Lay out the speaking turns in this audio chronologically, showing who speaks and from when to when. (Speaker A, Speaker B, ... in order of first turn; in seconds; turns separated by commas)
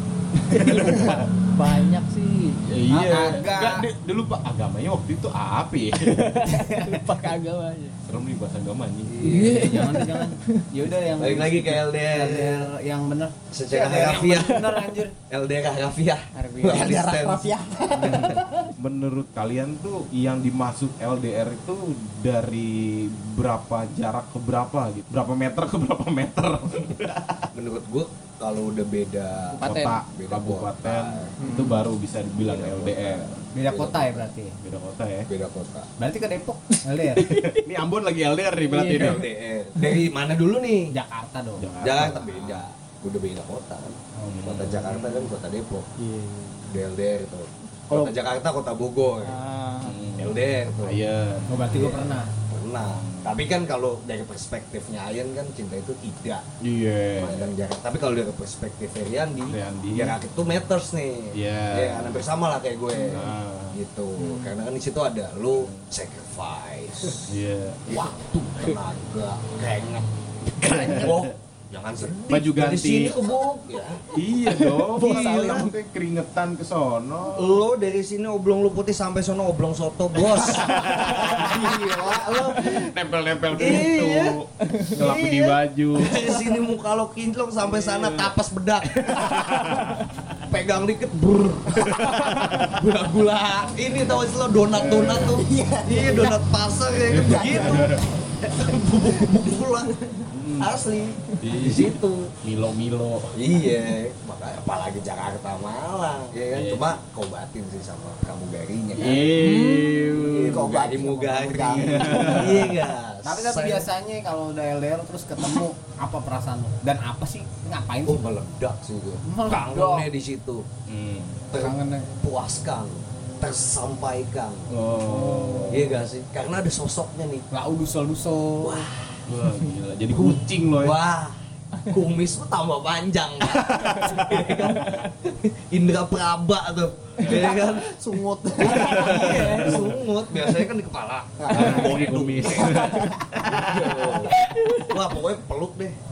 Speaker A: 0.5-1.0, Speaker B: 0.5-2.6, Speaker C: 0.6-1.2, Speaker C: 2.7-6.6, Speaker A: 2.9-3.9, Speaker B: 6.1-8.0, Speaker A: 6.5-7.0, Speaker C: 8.1-9.6, Speaker A: 9.2-15.1, Speaker B: 9.2-10.6, Speaker D: 9.2-9.6, Speaker D: 11.2-12.7, Speaker D: 13.5-17.5, Speaker B: 16.3-17.0, Speaker E: 16.6-18.7, Speaker A: 18.0-18.4, Speaker C: 18.8-27.4, Speaker D: 27.5-31.4, Speaker B: 29.5-30.0, Speaker C: 29.6-33.4, Speaker B: 31.4-31.7, Speaker D: 32.4-34.3, Speaker A: 33.5-34.5, Speaker C: 34.6-35.3, Speaker D: 35.3-35.9, Speaker A: 36.0-37.4, Speaker B: 37.1-37.6, Speaker C: 37.2-39.3, Speaker B: 38.7-39.2, Speaker D: 38.8-40.9, Speaker A: 40.9-41.7, Speaker C: 41.6-42.6, Speaker D: 41.8-45.9, Speaker C: 44.2-45.0, Speaker D: 46.7-49.4, Speaker B: 49.2-50.0, Speaker C: 49.8-51.6, Speaker D: 50.2-51.0, Speaker A: 51.5-52.3, Speaker D: 51.7-56.4, Speaker C: 52.8-53.4, Speaker C: 56.6-57.5, Speaker D: 57.2-74.0, Speaker C: 59.4-60.1, Speaker C: 61.3-62.2, Speaker C: 63.0-63.8, Speaker B: 64.2-64.5, Speaker C: 67.3-67.8, Speaker C: 70.7-71.3, Speaker C: 72.3-73.2, Speaker C: 74.1-77.6, Speaker B: 74.5-75.6, Speaker D: 75.0-75.7, Speaker D: 77.3-81.8, Speaker C: 80.6-81.6, Speaker A: 80.7-82.9, Speaker C: 82.3-86.4, Speaker D: 83.5-84.4, Speaker D: 84.9-89.7, Speaker C: 87.7-88.3, Speaker C: 89.0-89.8, Speaker D: 90.4-99.9, Speaker C: 91.8-92.7, Speaker C: 94.7-95.4, Speaker E: 95.2-96.4, Speaker C: 97.1-98.0, Speaker C: 100.3-100.7, Speaker D: 100.6-102.3, Speaker C: 101.4-103.4, Speaker D: 103.3-109.4, Speaker C: 106.5-107.0, Speaker C: 108.9-110.7, Speaker B: 109.3-110.0, Speaker D: 110.0-113.9, Speaker E: 110.4-112.7, Speaker C: 111.8-112.7, Speaker A: 113.2-118.3, Speaker D: 118.0-120.7, Speaker A: 119.2-120.1, Speaker C: 120.9-121.5, Speaker D: 121.5-124.7, Speaker A: 121.5-122.1, Speaker C: 124.7-126.0, Speaker A: 125.0-125.7, Speaker D: 125.7-127.5, Speaker A: 127.5-128.9, Speaker D: 128.6-129.2, Speaker C: 129.3-131.0, Speaker D: 130.1-137.9, Speaker C: 134.2-134.5, Speaker E: 137.2-139.1, Speaker D: 138.6-144.3, Speaker C: 138.7-140.0, Speaker A: 138.9-139.8, Speaker E: 141.4-141.9, Speaker C: 141.5-144.3, Speaker D: 144.9-146.0